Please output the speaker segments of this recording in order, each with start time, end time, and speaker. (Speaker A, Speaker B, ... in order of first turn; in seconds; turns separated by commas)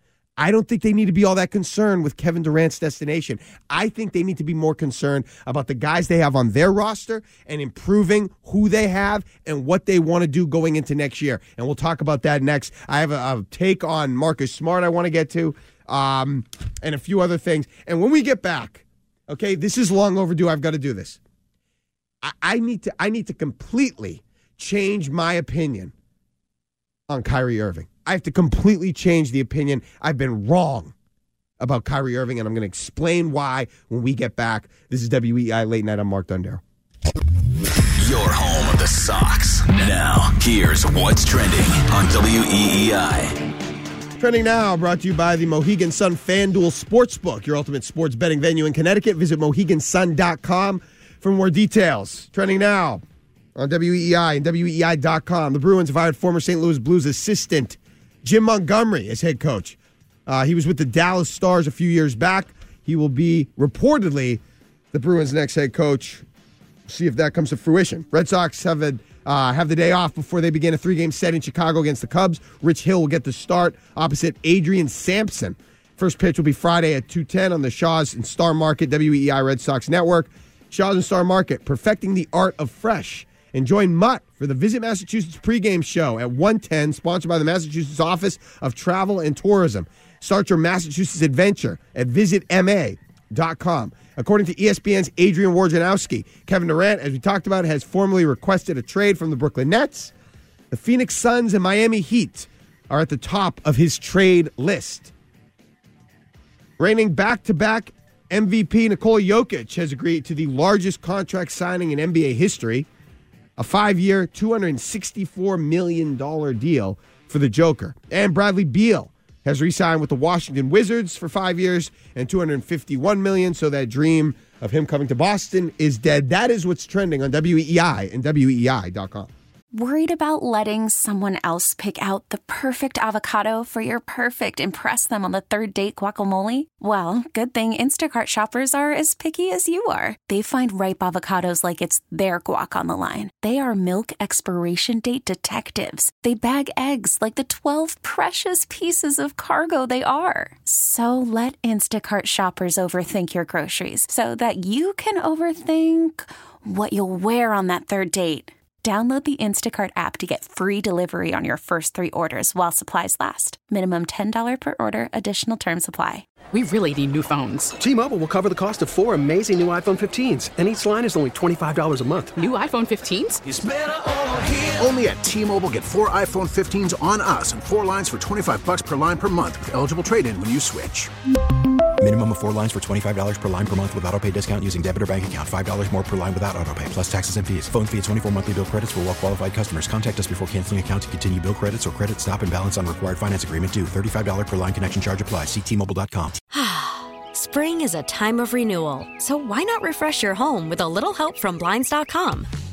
Speaker A: 0.4-21.2, Speaker A: 22.2-25.9, Speaker A: 27.1-30.9, Speaker A: 31.6-36.6, Speaker B: 38.0-43.4, Speaker A: 44.2-53.0, Speaker A: 53.6-64.4, Speaker A: 64.9-66.2, Speaker A: 66.9-100.1, Speaker A: 100.7-105.1, Speaker A: 106.8-112.9, Speaker A: 113.6-129.3, Speaker C: 129.7-166.3, Speaker D: 166.5-167.8, Speaker E: 167.8-172.4, Speaker D: 172.4-173.4, Speaker F: 173.5-173.9, Speaker F: 174.6-181.1, Speaker G: 182.0-196.4, Speaker H: 196.5-202.5